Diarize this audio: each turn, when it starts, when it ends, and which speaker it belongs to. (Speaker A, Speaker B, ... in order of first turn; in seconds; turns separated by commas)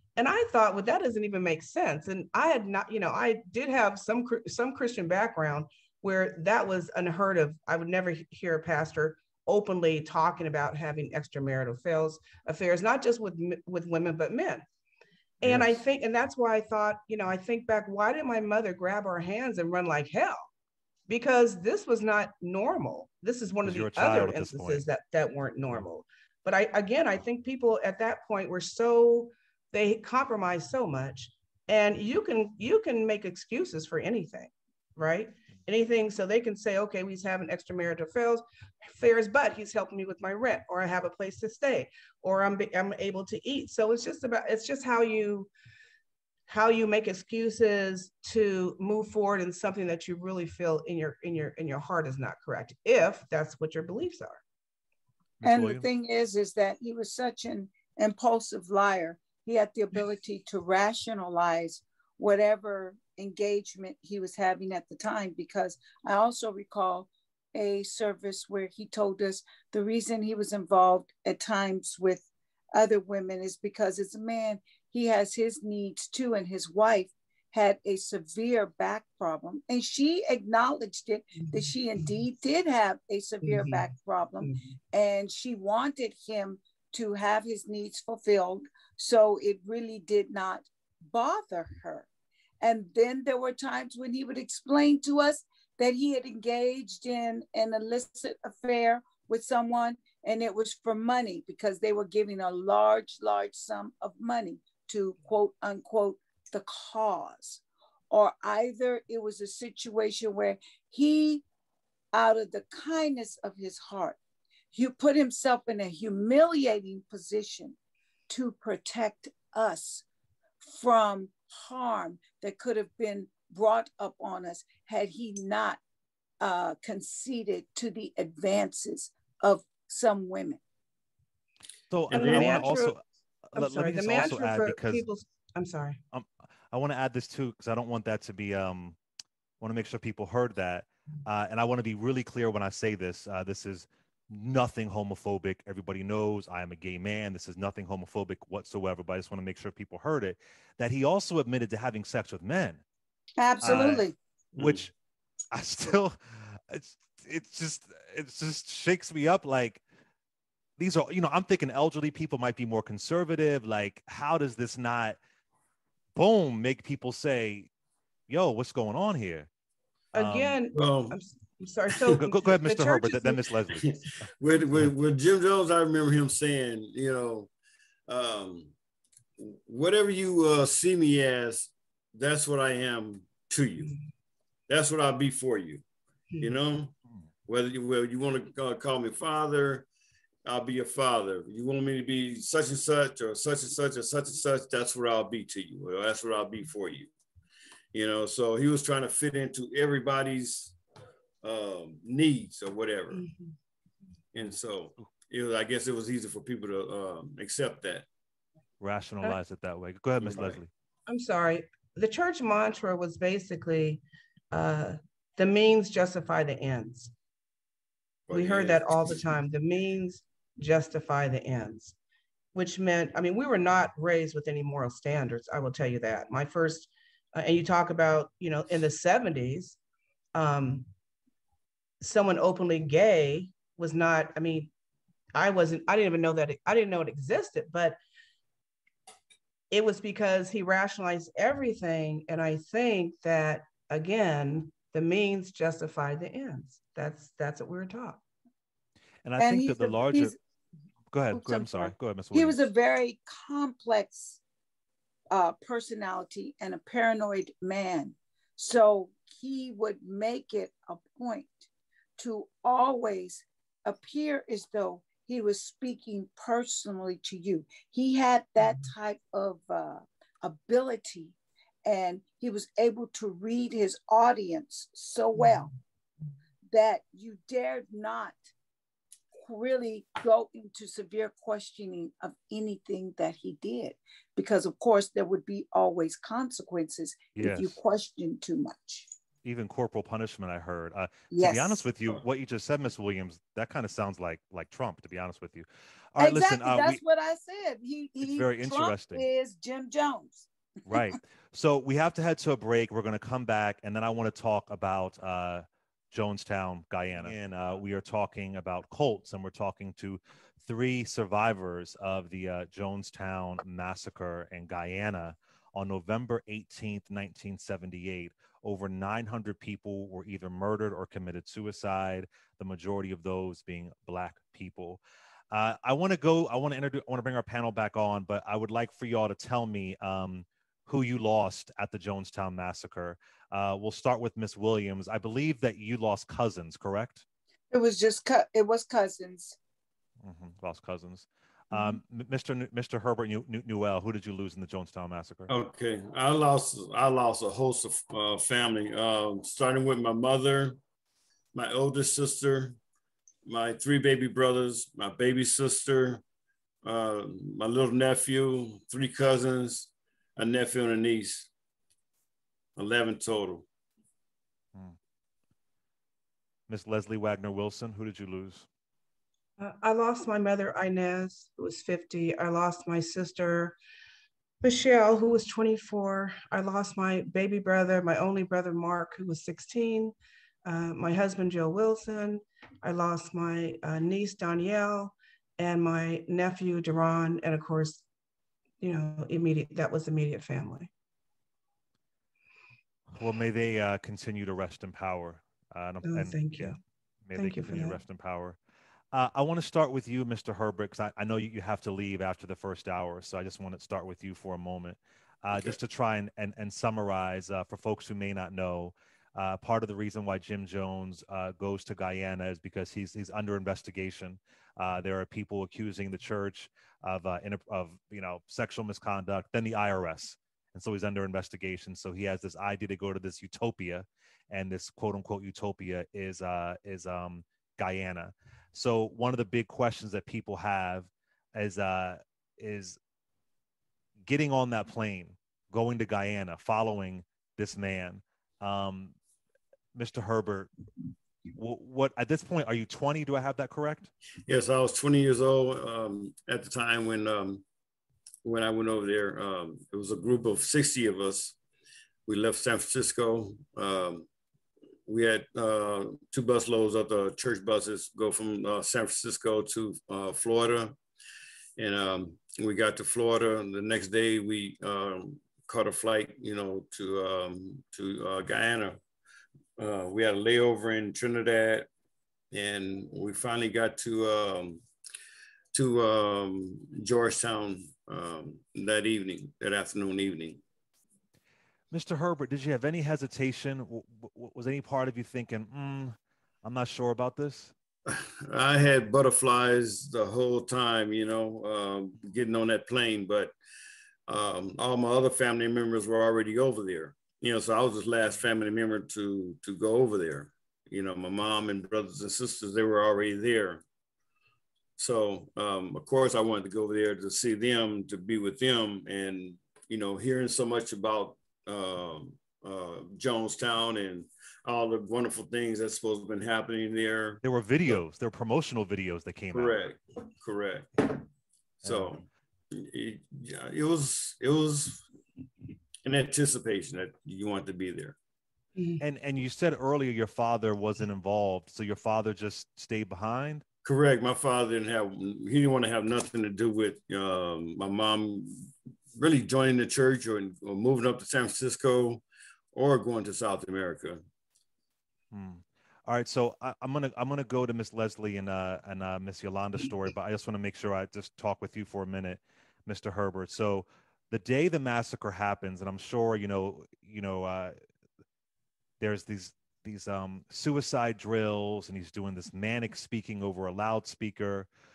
Speaker A: 0.2-14.6, Speaker A: 15.4-20.4, Speaker B: 15.4-15.8, Speaker A: 21.1-45.5, Speaker B: 23.6-24.9, Speaker A: 46.5-54.4, Speaker B: 55.4-55.9, Speaker C: 55.4-92.1, Speaker A: 83.4-83.9, Speaker C: 92.6-111.4, Speaker C: 112.1-114.2, Speaker C: 114.7-117.8, Speaker C: 118.3-120.0, Speaker C: 120.6-125.8, Speaker C: 126.4-130.6, Speaker B: 131.9-133.0, Speaker D: 132.1-132.8, Speaker A: 132.1-132.9, Speaker B: 133.5-135.1, Speaker A: 133.5-136.0, Speaker B: 136.1-139.0, Speaker B: 139.6-152.8, Speaker C: 153.4-154.2, Speaker B: 153.6-154.9, Speaker D: 154.6-154.8, Speaker B: 155.5-159.8, Speaker B: 160.8-165.2, Speaker B: 166.2-167.7, Speaker B: 168.3-169.5, Speaker A: 170.1-173.4, Speaker B: 170.1-170.6, Speaker D: 170.7-171.2, Speaker B: 172.1-173.9, Speaker D: 173.7-177.5, Speaker D: 178.1-178.7, Speaker D: 179.4-183.9, Speaker D: 184.7-185.8, Speaker D: 186.4-189.9, Speaker D: 190.4-197.1, Speaker D: 197.9-200.8, Speaker D: 201.4-203.2, Speaker A: 203.1-203.5, Speaker D: 204.3-208.1, Speaker B: 208.8-210.7, Speaker D: 210.2-210.6, Speaker A: 211.1-217.1, Speaker D: 218.3-219.2, Speaker A: 218.3-221.9, Speaker A: 222.5-229.8, Speaker A: 230.3-230.9, Speaker A: 232.0-234.7, Speaker A: 235.3-238.0, Speaker A: 239.7-248.2, Speaker B: 249.2-250.3, Speaker C: 249.4-250.4, Speaker B: 251.1-252.7, Speaker C: 251.3-254.4, Speaker C: 255.3-275.7, Speaker C: 276.7-278.4, Speaker C: 279.4-289.1, Speaker B: 287.4-287.8, Speaker B: 289.4-297.0, Speaker C: 291.3-291.8, Speaker C: 296.2-301.0, Speaker B: 298.2-299.2, Speaker B: 300.9-337.2, Speaker C: 337.7-339.6, Speaker B: 340.2-345.5, Speaker A: 341.7-342.0, Speaker D: 345.5-350.8, Speaker D: 351.5-352.8, Speaker D: 353.4-356.2, Speaker D: 356.8-361.5, Speaker D: 362.8-363.7, Speaker B: 366.7-368.7, Speaker A: 369.6-373.8, Speaker A: 374.6-380.1, Speaker A: 380.6-388.0, Speaker A: 388.8-390.9, Speaker B: 393.1-398.6, Speaker A: 396.0-396.8, Speaker A: 397.4-398.0, Speaker B: 399.1-433.0, Speaker B: 434.3-439.2, Speaker B: 439.9-440.7, Speaker B: 441.5-444.1, Speaker D: 444.5-447.6, Speaker D: 448.4-451.6, Speaker D: 452.3-454.3, Speaker D: 455.1-461.0, Speaker D: 461.8-469.0, Speaker D: 469.8-471.9, Speaker D: 472.5-474.8, Speaker D: 475.7-480.6, Speaker B: 481.9-487.7, Speaker D: 488.1-493.5, Speaker D: 494.3-503.8, Speaker D: 505.0-518.0, Speaker B: 517.4-519.8, Speaker D: 519.5-521.2, Speaker D: 521.8-525.0, Speaker B: 521.9-522.1, Speaker D: 526.0-528.2, Speaker A: 528.8-529.0, Speaker B: 529.0-533.6, Speaker D: 533.8-544.2, Speaker B: 545.3-557.8, Speaker B: 559.0-564.7